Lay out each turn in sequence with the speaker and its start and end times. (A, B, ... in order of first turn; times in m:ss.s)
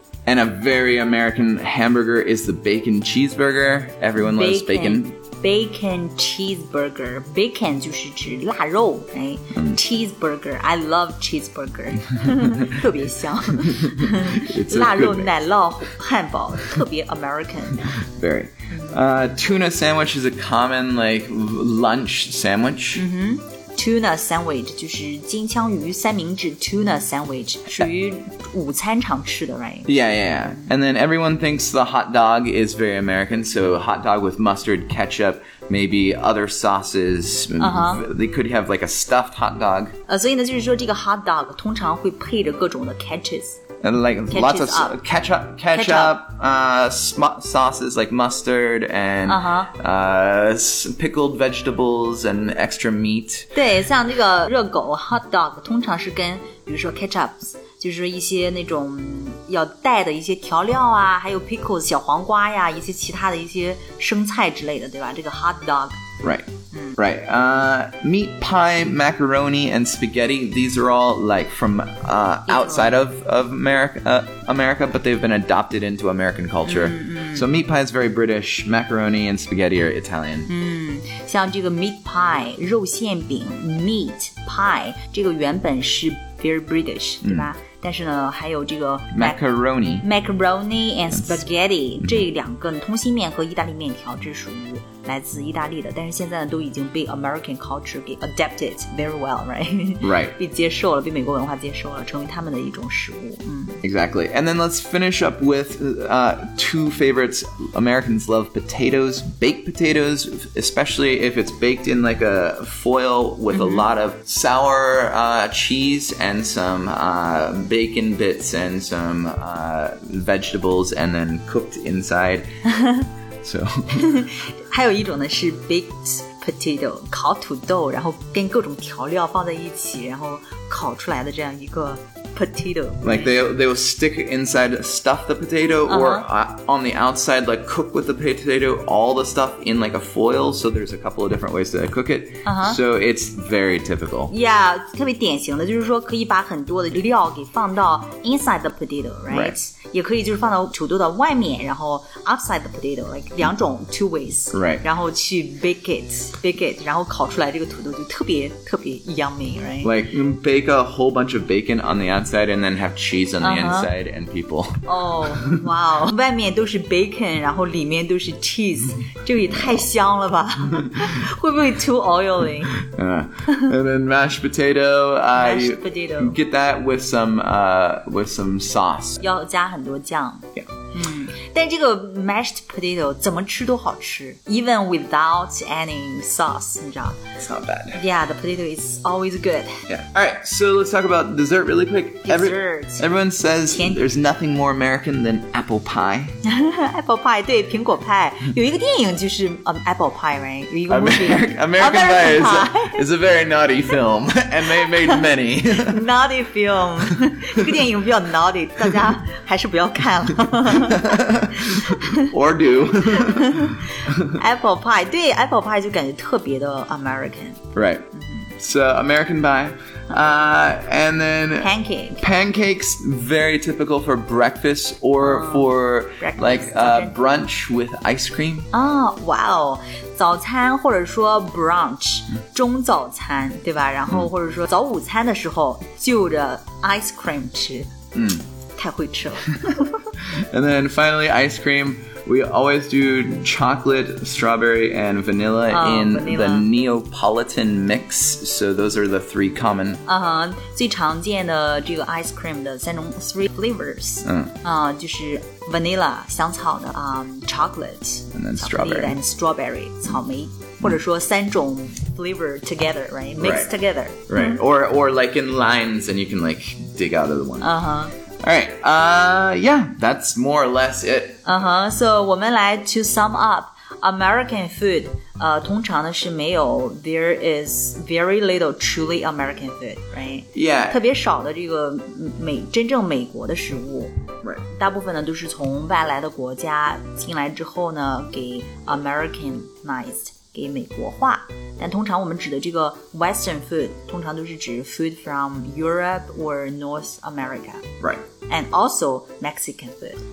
0:00.2-0:05.1 A
0:04.2-0:18.0 B
0:13.6-0:15.3 A
0:18.0-0:23.0 A
0:18.7-0:19.0 B
0:22.9-0:29.9 B
0:29.9-0:39.9 A
0:37.6-0:38.0 B
0:40.1-0:43.6 B
0:43.8-0:53.5 A
0:44.3-0:45.0 B
0:45.7-0:46.2 B
0:49.3-0:49.7 B
0:53.5-1:06.0 B
1:06.2-1:20.5 A
1:06.7-1:07.0 B
1:12.5-1:12.9 B
1:16.6-1:17.4 B
1:20.5-1:29.4 B
1:27.2-1:27.5 A
1:29.1-1:30.0 A
1:30.0-1:43.8 B
1:40.0-1:40.4 A
1:43.8-2:02.5 A
1:53.5-1:53.9 B
2:02.7-2:03.1 B
2:03.4-2:04.1 A
2:04.0-2:13.3 B
2:13.0-2:24.3 A
2:15.9-2:16.3 B
2:22.4-2:22.8 B
2:24.3-2:39.9 B
2:29.3-2:29.5 A
2:34.5-2:34.8 A
2:39.8-2:45.6 A
2:43.4-2:43.9 B
2:44.8-2:52.8 B
2:52.8-2:59.2 A
2:55.4-2:56.4 B
2:59.2-3:07.2 B
3:07.4-3:08.0 A
3:07.9-3:09.8 B
3:09.9-3:16.4 A
3:12.2-3:13.0 B
3:13.7-3:14.0 B
3:16.4-3:23.0 B
3:20.9-3:26.0 A
3:24.7-3:32.3 B
3:30.7-3:34.3 A
3:33.0-3:38.5 B
3:37.7-3:38.1 A
3:38.6-3:48.7 A
3:41.6-3:42.2 B
3:45.2-3:47.2 B
3:48.7-3:57.9 B
3:58.1-3:58.4 A
3:58.8-4:00.0 B
4:00.3-4:10.0 A
4:05.7-4:06.7 B
4:10.0-4:24.6 B
4:14.2-4:14.5 A
4:18.3-4:19.2 A
4:23.4-4:23.7 A
4:24.3-4:27.7 A
4:27.6-4:28.1 B
4:28.4-4:31.4 A
4:31.4-4:57.9 B
4:40.5-4:41.0 A
4:58.5-5:00.2 B